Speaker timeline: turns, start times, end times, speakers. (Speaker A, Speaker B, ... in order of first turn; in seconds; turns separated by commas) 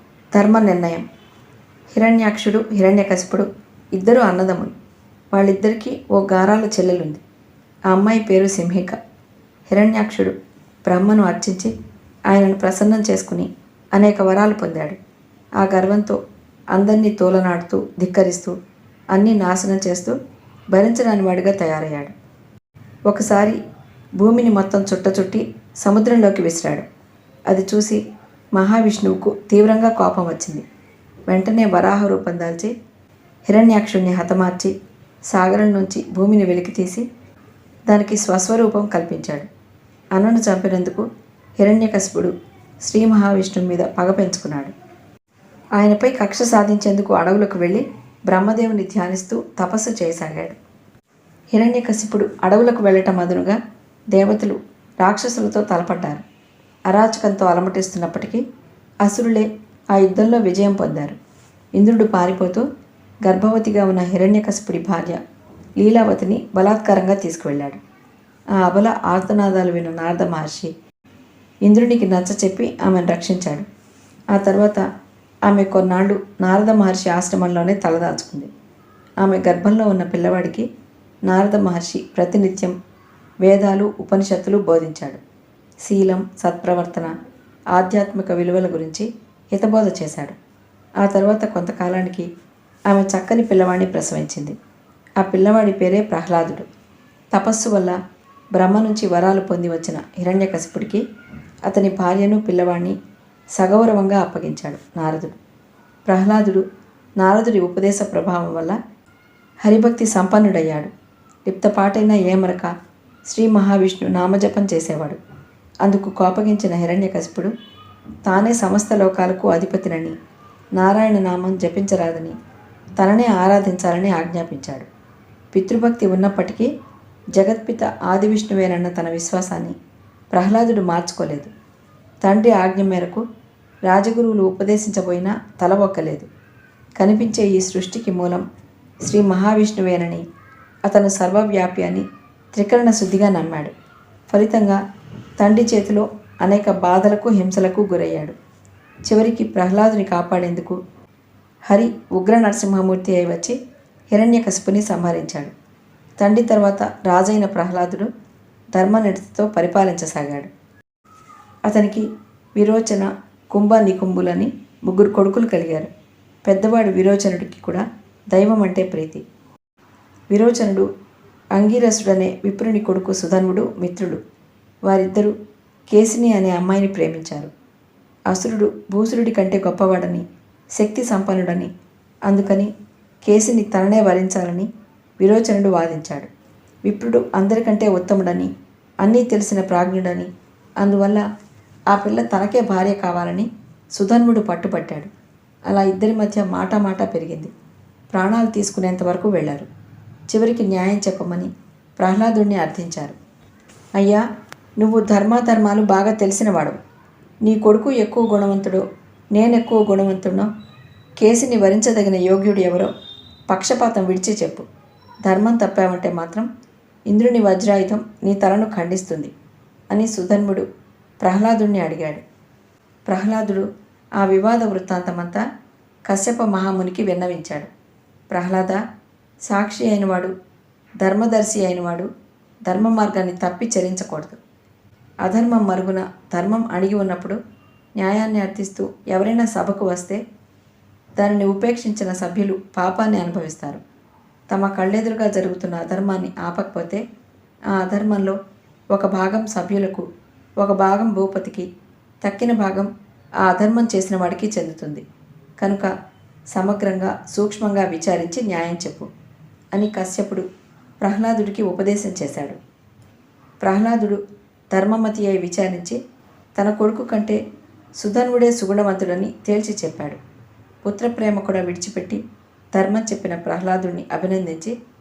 Speaker A: 0.3-1.0, Speaker A: 1.9-4.7, Speaker A: 5.3-7.2, Speaker A: 7.9-8.9, Speaker A: 9.7-10.3, Speaker A: 10.8-11.7, Speaker A: 12.3-15.0, Speaker A: 15.6-16.2, Speaker A: 16.7-18.5, Speaker A: 19.1-20.1, Speaker A: 20.7-22.1, Speaker A: 23.1-23.6, Speaker A: 24.2-26.9, Speaker A: 27.5-28.0, Speaker A: 28.5-30.6, Speaker A: 31.3-32.7, Speaker A: 33.5-34.7, Speaker A: 35.3-37.0, Speaker A: 37.9-39.5, Speaker A: 40.1-41.0, Speaker A: 41.6-42.3, Speaker A: 42.8-44.7, Speaker A: 45.8-50.5, Speaker A: 51.5-53.6, Speaker A: 54.1-56.2, Speaker A: 56.9-58.4, Speaker A: 59.0-61.2, Speaker A: 61.8-62.6, Speaker A: 63.2-65.2, Speaker A: 65.8-67.8, Speaker A: 68.6-70.7, Speaker A: 71.6-73.7, Speaker A: 74.3-74.8, Speaker A: 75.5-78.5, Speaker A: 79.2-80.7, Speaker A: 81.3-82.7, Speaker A: 83.4-85.2, Speaker A: 85.8-87.1, Speaker A: 87.7-90.4, Speaker A: 91.0-92.3, Speaker A: 92.9-94.6, Speaker A: 95.2-96.7, Speaker A: 97.3-98.0, Speaker A: 98.5-101.0, Speaker A: 101.7-103.0, Speaker A: 103.5-105.4, Speaker A: 106.0-106.6, Speaker A: 107.2-108.8, Speaker A: 109.6-110.9, Speaker A: 111.5-112.7, Speaker A: 113.3-115.2, Speaker A: 115.8-117.5, Speaker A: 118.2-120.1, Speaker A: 120.8-122.3, Speaker A: 123.0-124.9, Speaker A: 125.5-126.7, Speaker A: 127.3-129.8, Speaker A: 130.3-131.5, Speaker A: 132.2-133.2, Speaker A: 133.9-136.3, Speaker A: 137.0-138.4, Speaker A: 139.0-140.2, Speaker A: 140.8-143.7, Speaker A: 144.3-144.8, Speaker A: 145.4-148.3, Speaker A: 149.1-150.8, Speaker A: 151.7-153.6, Speaker A: 154.1-155.5, Speaker A: 156.2-158.1, Speaker A: 158.7-160.5, Speaker A: 161.7-162.1, Speaker A: 162.6-165.9, Speaker A: 166.4-169.2, Speaker A: 170.3-170.9, Speaker A: 171.5-174.2, Speaker A: 174.8-175.3, Speaker A: 175.9-177.5, Speaker A: 178.3-180.2, Speaker A: 180.8-181.7, Speaker A: 182.3-182.7, Speaker A: 183.2-184.7, Speaker A: 185.2-186.3, Speaker A: 186.8-188.5, Speaker A: 189.0-191.2, Speaker A: 191.9-195.1, Speaker A: 195.7-197.5, Speaker A: 198.1-199.7, Speaker A: 200.3-203.2, Speaker A: 203.9-204.2, Speaker A: 204.8-206.8, Speaker A: 207.4-210.5, Speaker A: 211.2-212.9, Speaker A: 213.5-214.7, Speaker A: 215.2-216.5, Speaker A: 217.1-219.3, Speaker A: 219.9-220.7, Speaker A: 221.2-222.2, Speaker A: 223.1-223.7, Speaker A: 224.2-225.4, Speaker A: 226.1-227.7, Speaker A: 228.3-228.8, Speaker A: 229.5-230.3, Speaker A: 231.0-232.1, Speaker A: 232.7-234.4, Speaker A: 235.2-237.4, Speaker A: 238.0-240.2, Speaker A: 241.2-243.8, Speaker A: 244.5-247.0, Speaker A: 247.7-248.4, Speaker A: 248.9-250.0, Speaker A: 250.6-251.7, Speaker A: 252.2-252.9, Speaker A: 253.4-255.0, Speaker A: 255.6-255.9, Speaker A: 256.5-259.1, Speaker A: 259.7-260.4, Speaker A: 261.0-262.6, Speaker A: 263.6-264.2, Speaker A: 264.7-266.0, Speaker A: 266.6-267.4, Speaker A: 268.0-270.2, Speaker A: 270.8-272.2, Speaker A: 272.7-274.7